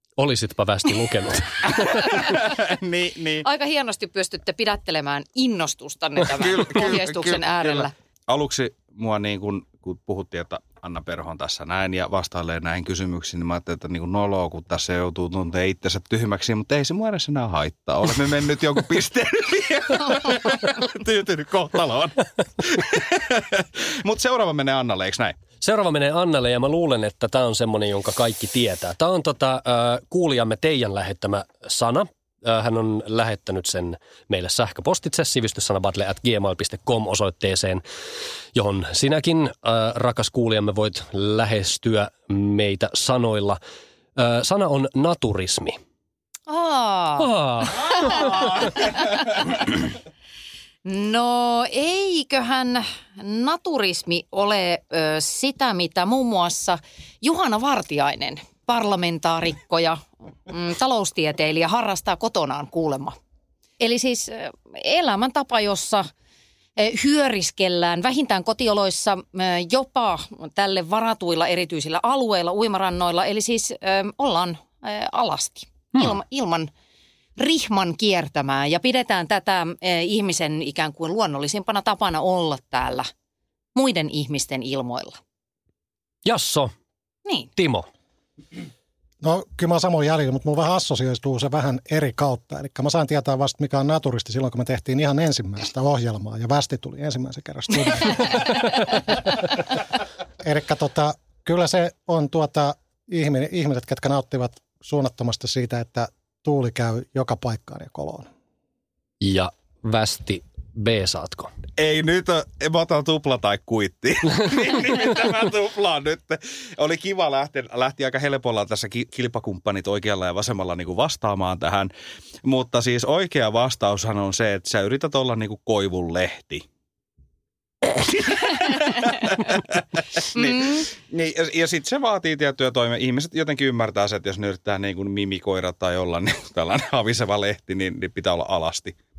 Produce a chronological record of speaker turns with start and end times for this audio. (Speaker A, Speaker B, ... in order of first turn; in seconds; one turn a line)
Speaker A: 0.2-2.3
Speaker B: 1.8-3.5
Speaker C: 3.4-7.9
Speaker B: 6.2-25.4
Speaker A: 25.6-37.8
Speaker A: 38.5-43.6
Speaker A: 44.2-45.8
Speaker C: 46.5-49.0
Speaker A: 47.2-48.5
Speaker B: 47.7-49.5
Speaker C: 50.9-63.1
Speaker C: 63.8-66.1
Speaker C: 66.8-76.7
Speaker C: 77.4-83.1
Speaker C: 83.8-85.2
Speaker A: 86.2-86.7
Speaker A: 87.6-87.9
Speaker D: 89.2-99.5
Speaker D: 100.4-108.3
Speaker A: 109.2-111.5
Speaker B: 111.8-121.9
Speaker B: 122.4-126.7
Speaker B: 127.8-139.0
Speaker C: 130.4-130.8